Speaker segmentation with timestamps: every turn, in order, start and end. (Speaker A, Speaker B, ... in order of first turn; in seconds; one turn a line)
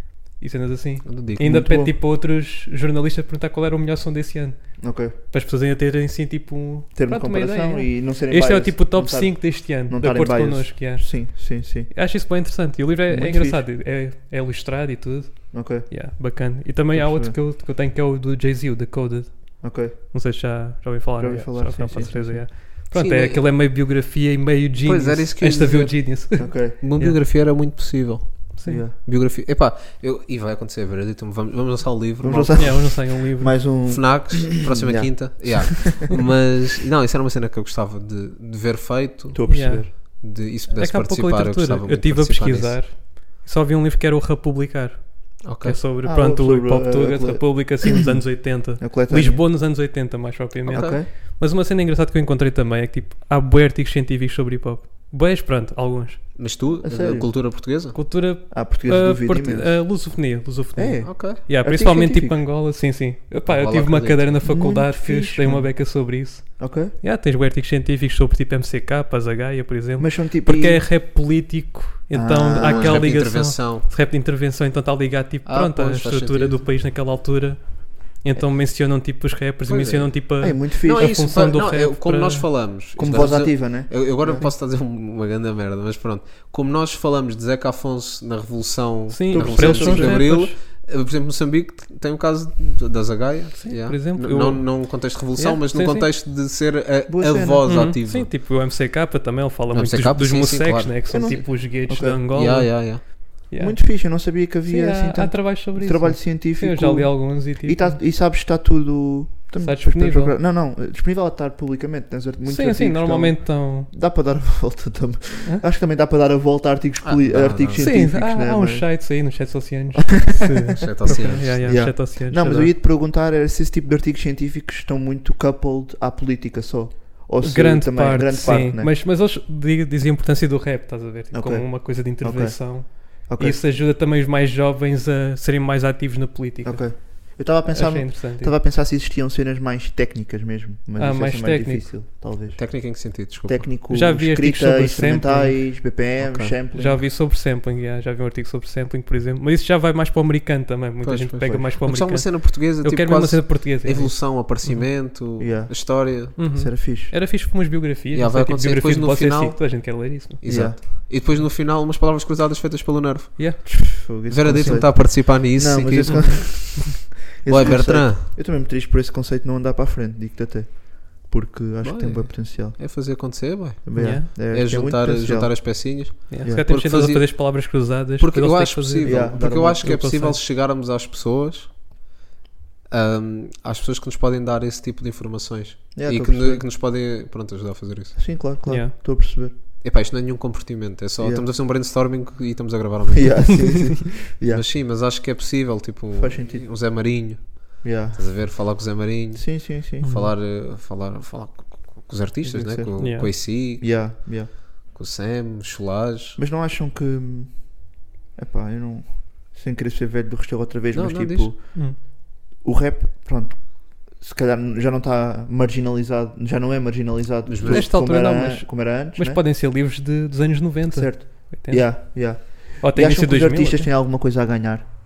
Speaker A: 0.4-27.2
Speaker B: 1.0-1.5
Speaker C: 1.4-1.9
Speaker C: 4.8-5.1
Speaker C: 6.9-11.9
Speaker C: 13.1-13.6
Speaker C: 15.5-16.1
Speaker C: 16.9-17.4
Speaker C: 19.6-19.9
Speaker C: 21.2-22.5
Speaker B: 22.9-23.5
Speaker B: 24.8-33.0
Speaker C: 26.4-26.8
Speaker A: 28.6-28.8
Speaker C: 28.6-29.0
Speaker C: 32.2-35.8
Speaker A: 32.5-33.6
Speaker B: 33.8-42.8
Speaker C: 39.3-39.9
Speaker A: 39.5-40.2
Speaker A: 40.7-56.2
Speaker B: 45.4-45.8
Speaker C: 46.0-49.4
Speaker B: 50.7-51.0
Speaker C: 50.7-51.1
Speaker B: 56.4-58.0
Speaker C: 56.8-57.3
Speaker A: 57.9-82.5
Speaker C: 58.5-59.9
Speaker C: 60.8-62.4
Speaker B: 61.0-61.4
Speaker B: 63.5-64.4
Speaker C: 64.4-66.0
Speaker C: 66.6-66.9
Speaker C: 70.0-70.8
Speaker C: 72.1-73.0
Speaker B: 72.6-73.9
Speaker B: 75.5-76.7
Speaker B: 79.7-80.2
Speaker C: 80.4-81.3
Speaker B: 80.8-98.3
Speaker C: 83.0-84.5
Speaker A: 89.1-90.5
Speaker C: 89.3-90.3
Speaker A: 93.6-96.1
Speaker C: 97.1-97.7
Speaker A: 97.7-108.0
Speaker B: 99.7-101.5
Speaker C: 101.1-102.2
Speaker B: 102.3-103.3
Speaker C: 103.6-119.0
Speaker A: 109.6-110.3
Speaker A: 112.5-113.9
Speaker B: 117.0-117.9
Speaker A: 117.8-122.7
Speaker C: 120.0-128.9
Speaker B: 120.8-122.0
Speaker A: 127.4-138.5
Speaker C: 131.3-133.6
Speaker C: 136.6-147.0
Speaker A: 141.0-141.8
Speaker B: 142.6-143.7
Speaker A: 143.9-145.6
Speaker B: 146.2-146.5
Speaker A: 146.7-154.9
Speaker B: 151.0-156.4
Speaker C: 155.4-157.1
Speaker A: 156.4-160.4
Speaker B: 158.1-166.7
Speaker C: 160.4-160.8
Speaker C: 163.7-173.3
Speaker A: 166.0-166.6
Speaker B: 167.4-168.3
Speaker B: 171.8-181.7
Speaker C: 173.8-176.7
Speaker A: 173.9-174.3
Speaker A: 176.3-180.4
Speaker C: 179.0-179.9
Speaker B: 182.9-188.3
Speaker C: 185.9-186.6
Speaker C: 188.2-189.5
Speaker A: 188.7-188.9
Speaker B: 189.8-193.8
Speaker C: 191.2-191.4
Speaker C: 193.1-194.6
Speaker B: 194.4-204.4
Speaker C: 196.1-196.7
Speaker C: 197.8-198.8
Speaker C: 199.3-200.2
Speaker A: 200.0-200.3
Speaker C: 202.4-204.5
Speaker A: 203.0-203.3
Speaker B: 204.9-206.4
Speaker C: 206.4-219.4
Speaker B: 210.9-211.5
Speaker B: 217.4-217.9
Speaker A: 217.6-223.9
Speaker C: 220.9-224.9